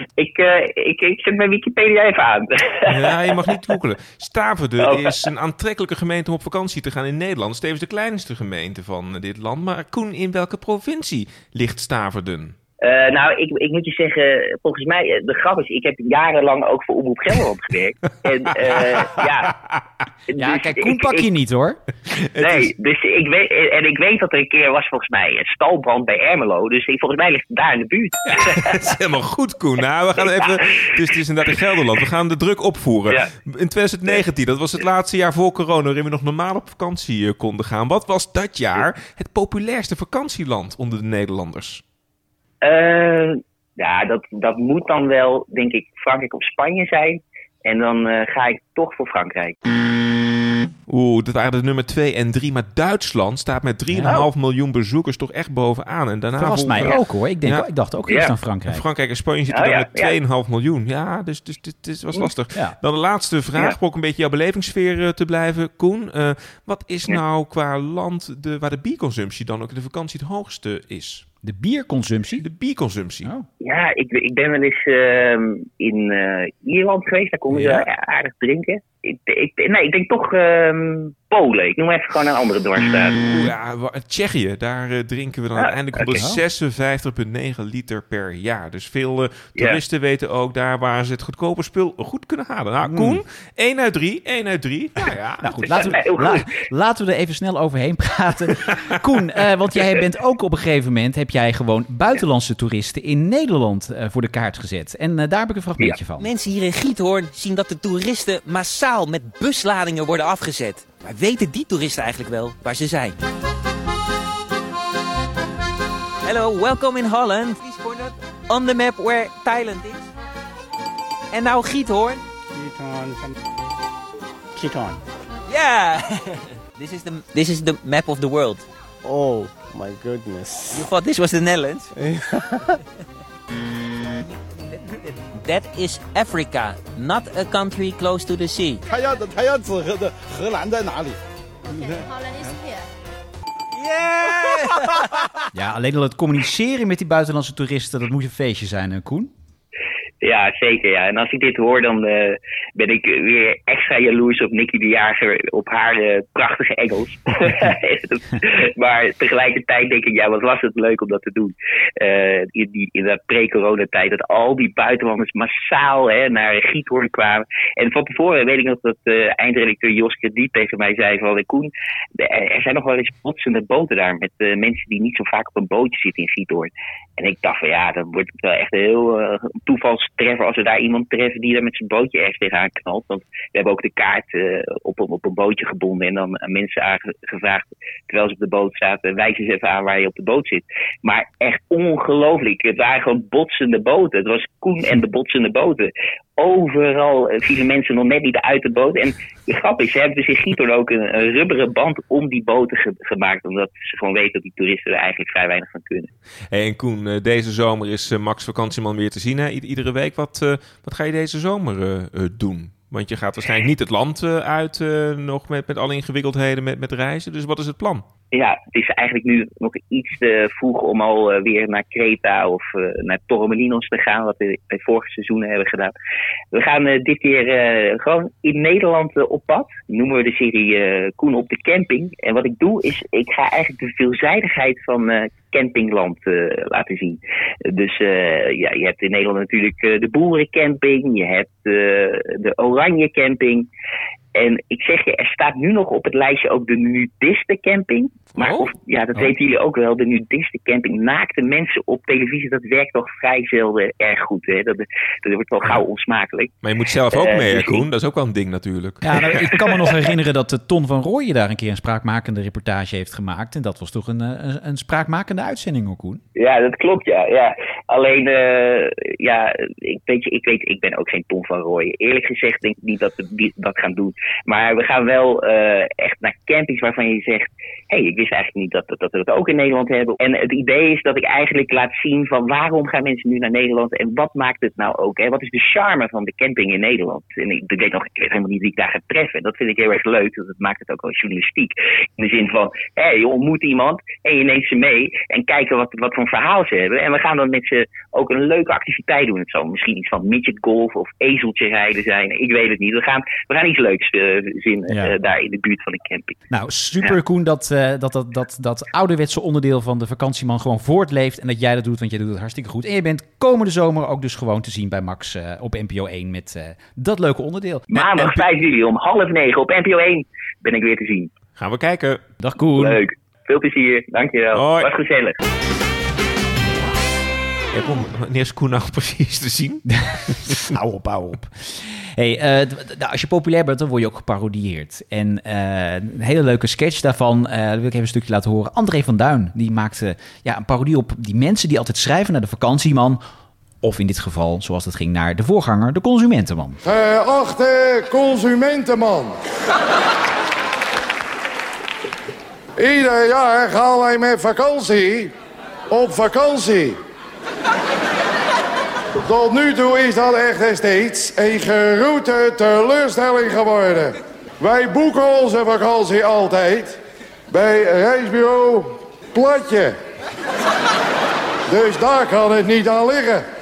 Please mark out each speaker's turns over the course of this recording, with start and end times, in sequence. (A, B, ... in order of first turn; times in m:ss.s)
0:00.2-0:03.4 A
0:02.9-0:12.6 B
0:04.8-0:05.2 A
0:12.8-0:19.6 A
0:18.6-0:19.3 B
0:20.3-0:21.2 A
0:20.4-0:21.8 C
0:22.3-0:22.7 B
0:22.4-0:28.9 A
0:28.3-0:41.8 B
0:30.2-0:31.0 A
0:42.6-0:49.6 A
0:50.9-0:57.7 B
0:53.9-0:54.2 C
0:56.4-0:58.8 C
0:58.7-1:11.3 B
0:59.5-1:00.1 A
1:11.4-1:12.4 C
1:12.4-1:13.3 B
1:13.6-1:23.2 A
1:17.6-1:17.8 B
1:23.3-1:36.0 B
1:25.6-1:26.2 A
1:32.8-1:33.2 C
1:35.4-1:46.3 C
1:35.7-1:36.4 A
1:46.2-1:53.2 D
1:56.2-2:00.0 D
2:01.3-2:02.2 D
2:02.5-2:03.3 E
2:04.6-2:05.0 E
2:05.5-2:08.6 D
2:09.1-2:10.5 E
2:09.1-2:10.8 F
2:10.7-2:11.9 D
2:14.3-2:18.8 D
2:18.9-2:21.2 F
2:23.8-2:25.0 D
2:25.5-2:29.3 C
2:30.2-3:26.1 A
3:26.5-3:38.0 B
3:38.3-3:45.9 A
3:46.5-4:03.7 A
4:04.4-4:16.5 A
4:08.4-4:09.3 B
4:16.6-4:19.5 B
4:17.1-4:17.8 A
4:19.0-4:26.2 C
4:26.4-5:06.4 A
5:04.9-5:05.1 C
5:06.5-5:17.9 C
5:17.9-5:21.3 A
5:18.0-5:18.4 B
5:21.6-5:22.2 B
5:22.4-5:23.0 C
5:22.8-5:25.4 A
5:24.5-5:24.9 B
5:27.7-5:30.5 B
5:29.9-5:43.2 C
5:43.8-5:46.8 C
5:46.8-5:49.4 G
5:52.8-5:55.3 G
5:55.9-5:57.0 G
5:59.2-6:07.0 G
6:07.5-6:09.9 G
6:11.7-6:13.4 G